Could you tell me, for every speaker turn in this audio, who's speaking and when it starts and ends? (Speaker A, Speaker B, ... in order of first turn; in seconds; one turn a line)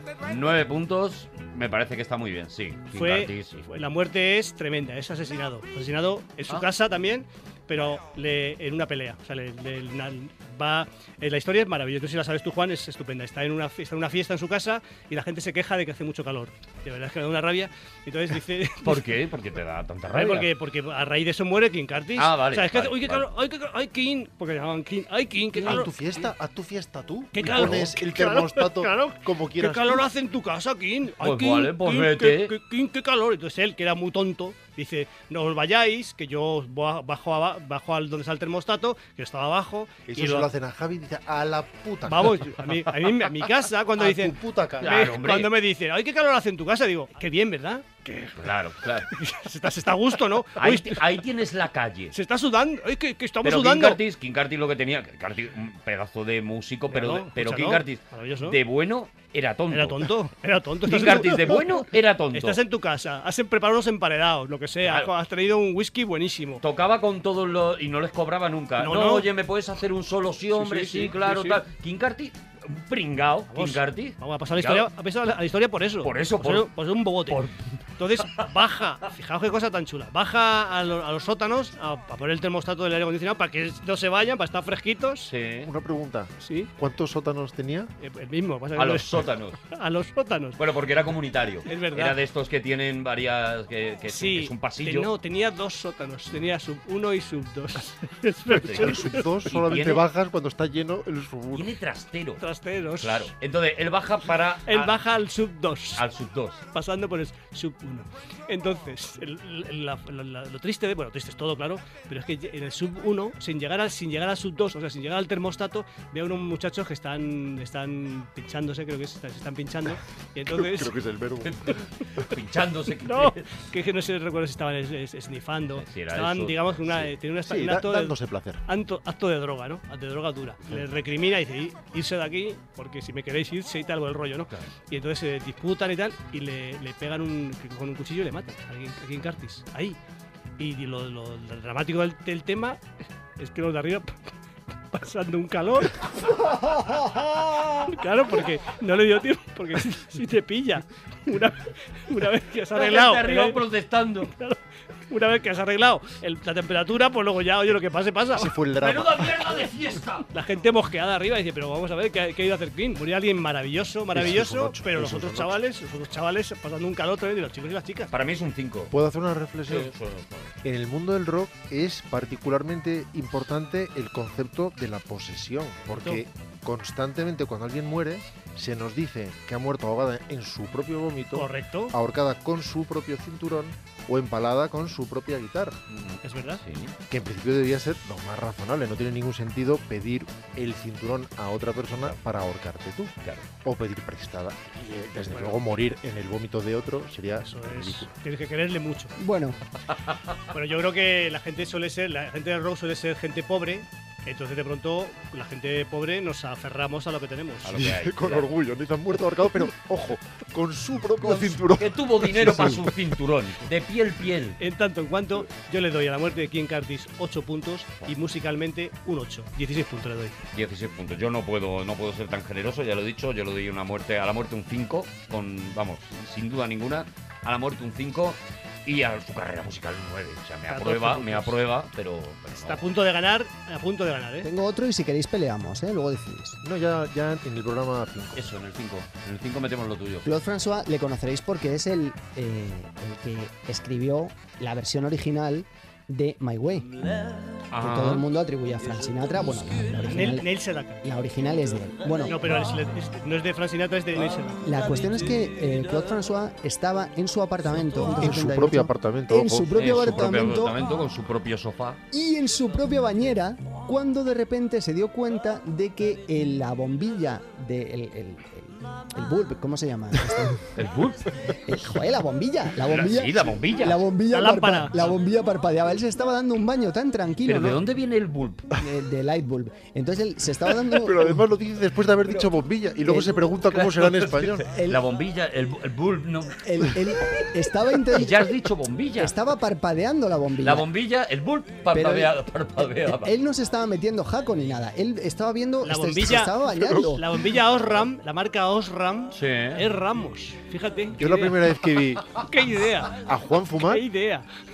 Speaker A: 0.2-3.6
Speaker B: 2.9-19.1
Speaker A: 18.8-20.5
Speaker B: 20.1-26.3
Speaker A: 22.1-23.3
Speaker C: 25.6-30.1
Speaker B: 27.3-40.5
Speaker A: 27.5-27.7
Speaker A: 31.2-32.5
Speaker C: 40.1-42.5
Speaker B: 42.0-48.5
Speaker C: 44.0-45.1
Speaker A: 44.8-45.5
Speaker A: 48.4-49.1
Speaker B: 49.1-51.2
Speaker A: 50.6-52.1
Speaker B: 52.1-54.0
Speaker A: 53.4-60.1
Speaker B: 56.9-58.6
Speaker B: 59.7-66.6
Speaker A: 60.9-62.6
Speaker A: 64.8-65.1
Speaker A: 66.6-74.9
Speaker B: 68.8-69.3
Speaker B: 70.5-71.6
Speaker B: 73.5-77.4
Speaker A: 76.0-76.7
Speaker A: 77.3-78.5
Speaker B: 78.0-85.3
Speaker A: 85.3-85.7
Speaker C: 85.6-87.9
Speaker B: 86.4-86.7
Speaker B: 88.0-90.6
Speaker A: 88.8-89.6
Speaker A: 90.6-95.1
Speaker B: 91.7-92.2
Speaker B: 94.1-99.3
Speaker A: 98.5-100.0
Speaker C: 98.6-101.7
Speaker A: 101.5-102.4
Speaker B: 102.4-103.3
Speaker A: 103.0-104.9
Speaker B: 104.7-106.0
Speaker A: 105.9-106.6
Speaker B: 106.7-121.0
Speaker C: 120.5-121.8
Speaker A: 121.4-123.5
Speaker B: 123.0-140.0
Speaker A: 125.7-127.1
Speaker C: 127.5-128.6
Speaker B: 140.6-142.8
Speaker B: 143.4-144.2
Speaker B: 144.9-146.8
Speaker B: 147.7-153.6
Speaker A: 152.7-154.3
Speaker B: 154.2-154.6
Speaker B: 155.1-158.5
Speaker C: 158.3-159.6
Speaker A: 158.8-160.3
Speaker B: 160.3-168.1
Speaker C: 164.1-165.6
Speaker A: 168.1-168.9
Speaker C: 168.9-169.9
Speaker A: 169.7-170.5
Speaker C: 170.6-185.8
Speaker B: 181.3-181.9
Speaker A: 185.9-186.9
Speaker B: 186.2-186.6
Speaker C: 187.1-198.1
Speaker A: 193.2-193.5
Speaker B: 195.2-195.6
Speaker B: 197.4-199.1
Speaker D: 199.2-199.6
Speaker B: 200.5-207.7
Speaker A: 207.6-208.5
Speaker C: 207.7-213.1
Speaker A: 211.2-214.6
Speaker B: 214.6-220.4
Speaker A: 220.5-232.8
Speaker B: 230.7-231.6
Speaker B: 232.6-234.5
Speaker D: 234.4-236.6
Speaker C: 236.6-238.4
Speaker A: 238.3-240.3
Speaker D: 240.2-246.9
Speaker A: 247.7-248.2
Speaker D: 247.8-250.5
Speaker B: 250.1-251.0
Speaker D: 251.0-252.5
Speaker B: 252.2-254.6
Speaker D: 254.6-260.8
Speaker C: 258.1-260.1
Speaker A: 259.7-262.0
Speaker D: 262.1-270.6
Speaker A: 270.7-271.3
Speaker D: 271.6-277.8
Speaker A: 272.9-274.0
Speaker B: 274.3-275.1
Speaker A: 277.4-278.7
Speaker D: 278.7-281.4
Speaker C: 280.8-284.7
Speaker D: 283.0-283.4
Speaker A: 283.7-286.6
Speaker D: 284.7-285.0
Speaker D: 286.6-288.5
Speaker A: 288.1-289.3
Speaker D: 289.2-290.9
Speaker A: 290.6-293.3
Speaker D: 291.9-297.2
Speaker B: 295.8-296.6
Speaker C: 296.7-297.1
Speaker B: 297.1-301.7
Speaker A: 299.3-299.8
Speaker C: 301.1-302.4
Speaker B: 302.3-303.2
Speaker C: 303.2-304.0
Speaker B: 303.8-304.5